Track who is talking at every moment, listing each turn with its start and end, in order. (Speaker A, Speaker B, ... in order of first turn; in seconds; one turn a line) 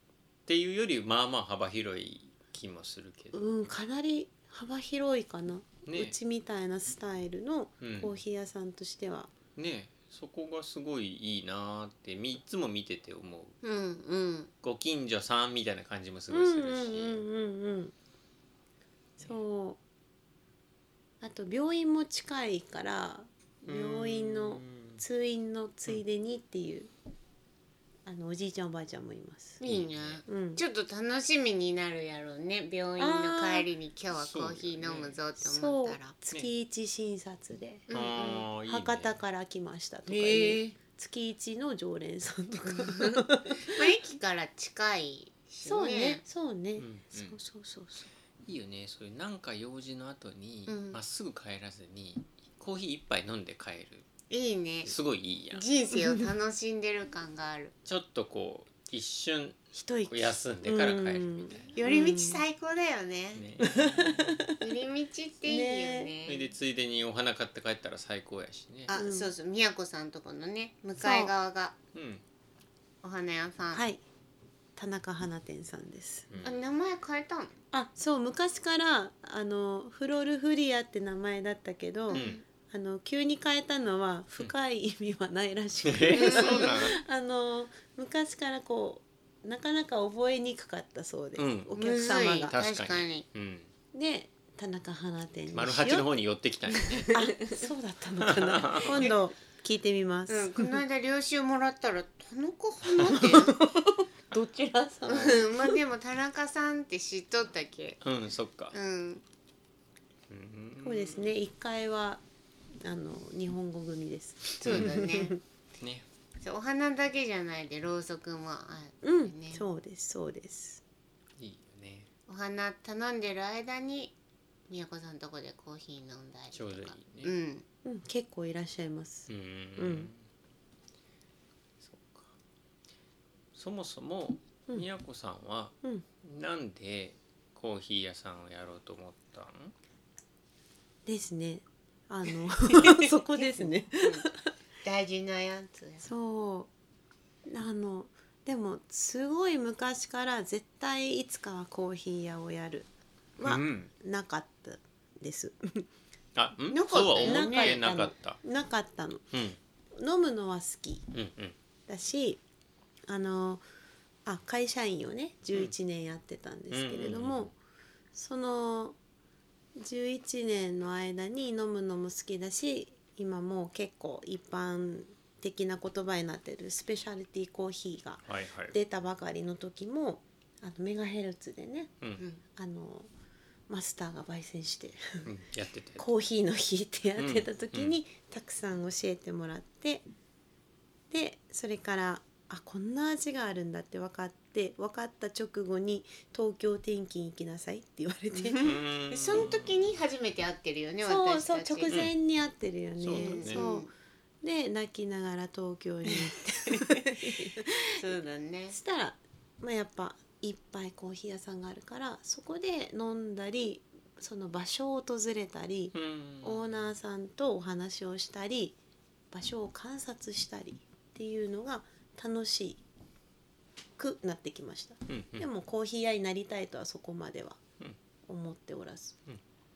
Speaker A: 0.5-3.4
Speaker B: 3.3-9.3
Speaker A: 5.8-6.2
Speaker A: 7.8-8.1
Speaker A: 9.6-13.6
Speaker C: 13.6-14.5
Speaker A: 14.6-17.2
Speaker B: 16.3-17.9
Speaker B: 19.2-19.8
Speaker B: 21.2-26.9
Speaker A: 23.6-25.0
Speaker B: 28.1-29.6
Speaker C: 29.6-36.1
Speaker A: 29.6-30.2
Speaker B: 30.3-30.6
Speaker B: 33.0-33.7
Speaker A: 34.1-35.2
Speaker B: 35.4-43.9
Speaker C: 37.9-38.5
Speaker A: 37.9-39.2
Speaker C: 40.1-40.8
Speaker C: 42.7-46.2
Speaker B: 45.6-48.1
Speaker A: 46.8-47.4
Speaker A: 48.5-54.1
Speaker C: 50.7-51.0
Speaker C: 54.3-55.0
Speaker A: 54.9-55.7
Speaker C: 55.5-57.7
Speaker A: 57.9-61.8
Speaker B: 59.7-62.4
Speaker C: 61.8-63.5
Speaker A: 63.4-64.5
Speaker B: 63.6-64.6
Speaker C: 64.6-66.5
Speaker B: 65.5-66.1
Speaker A: 66.2-69.0
Speaker C: 68.9-71.8
Speaker B: 68.9-69.3
Speaker B: 71.0-71.3
Speaker A: 71.9-72.2
Speaker C: 73.0-73.8
Speaker B: 73.7-74.0
Speaker B: 74.8-76.3
Speaker A: 76.3-76.6
Speaker C: 76.4-77.5
Speaker B: 77.7-92.5
Speaker C: 82.1-82.4
Speaker A: 82.1-82.4
Speaker A: 85.8-87.0
Speaker C: 86.1-86.8
Speaker A: 91.4-91.7
Speaker C: 91.8-93.2
Speaker A: 92.5-93.7
Speaker B: 93.9-96.1
Speaker A: 95.5-97.1
Speaker C: 96.7-97.6
Speaker B: 97.1-100.8
Speaker A: 98.2-99.1
Speaker C: 98.9-99.2
Speaker C: 100.3-103.6
Speaker B: 103.1-105.8
Speaker C: 105.1-108.0
Speaker A: 108.0-108.8
Speaker C: 108.7-109.2
Speaker A: 110.3-111.3
Speaker B: 110.8-112.2
Speaker B: 112.8-115.4
Speaker C: 114.6-115.3
Speaker A: 114.7-115.0
Speaker A: 115.8-116.1
Speaker C: 116.4-119.6
Speaker B: 119.0-120.8
Speaker A: 121.4-122.1
Speaker C: 122.3-124.1
Speaker C: 124.7-127.7
Speaker A: 126.5-127.3
Speaker B: 127.8-130.1
Speaker A: 129.3-130.2
Speaker A: 131.8-132.3
Speaker A: 133.5-139.7
Speaker B: 141.1-144.5
Speaker C: 142.7-144.3
Speaker C: 144.8-146.0
Speaker B: 146.0-146.7
Speaker B: 147.5-155.9
Speaker A: 153.4-153.9
Speaker A: 156.3-158.4
Speaker C: 156.7-157.8
Speaker B: 157.2-159.3
Speaker A: 159.3-159.6
Speaker B: 160.0-161.1
Speaker A: 161.1-161.6
Speaker B: 161.9-162.4
Speaker B: 163.1-163.6
Speaker B: 164.3-167.5
Speaker A: 166.7-167.5
Speaker B: 168.1-169.0
Speaker B: 169.8-181.9
Speaker A: 178.3-178.8
Speaker B: 182.6-183.1
Speaker B: 183.7-185.3
Speaker A: 185.2-186.1
Speaker B: 186.0-190.1
Speaker A: 187.2-188.0
Speaker B: 191.1-198.6
Speaker C: 198.3-202.0
Speaker A: 198.6-199.8
Speaker B: 201.0-203.9
Speaker A: 203.0-203.7
Speaker C: 203.2-203.9
Speaker B: 204.4-207.8
Speaker C: 206.1-207.2
Speaker C: 207.9-208.8
Speaker B: 208.7-218.8
Speaker A: 215.9-216.8
Speaker B: 219.3-222.8
Speaker B: 224.0-227.6
Speaker A: 225.1-225.5
Speaker B: 228.3-229.2